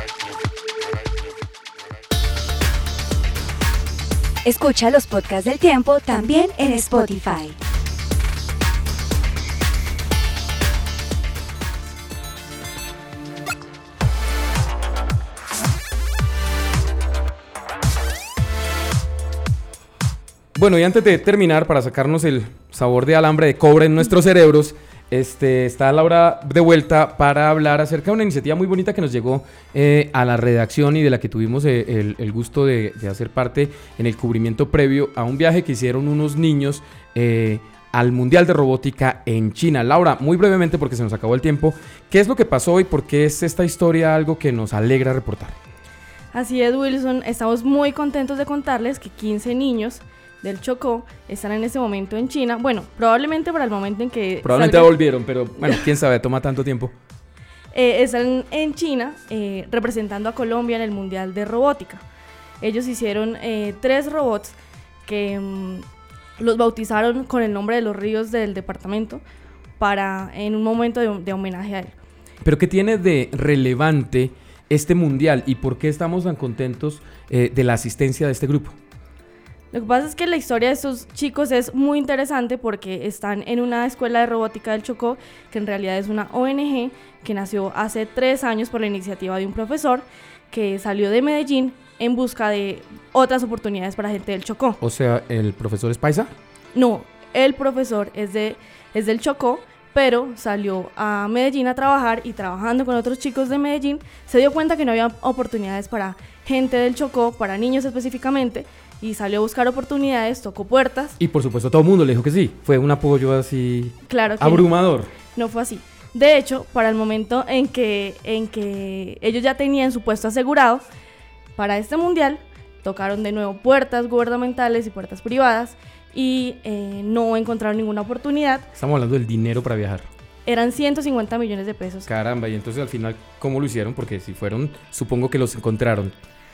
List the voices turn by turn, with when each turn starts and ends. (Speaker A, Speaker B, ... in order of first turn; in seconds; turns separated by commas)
Speaker A: 4.5-7.6, Speaker B: 20.6-45.6, Speaker C: 46.3-54.9, Speaker B: 54.4-56.9, Speaker C: 57.7-62.0, Speaker C: 62.6-65.8, Speaker C: 66.4-69.2, Speaker C: 69.8-72.0, Speaker B: 72.4-78.8, Speaker C: 79.7-94.8, Speaker B: 94.8-96.3, Speaker C: 96.7-111.2, Speaker B: 111.2-115.1, Speaker C: 114.1-114.7, Speaker C: 115.3-120.8, Speaker C: 121.6-128.7, Speaker B: 128.8-130.1, Speaker C: 130.5-132.1, Speaker B: 132.1-136.1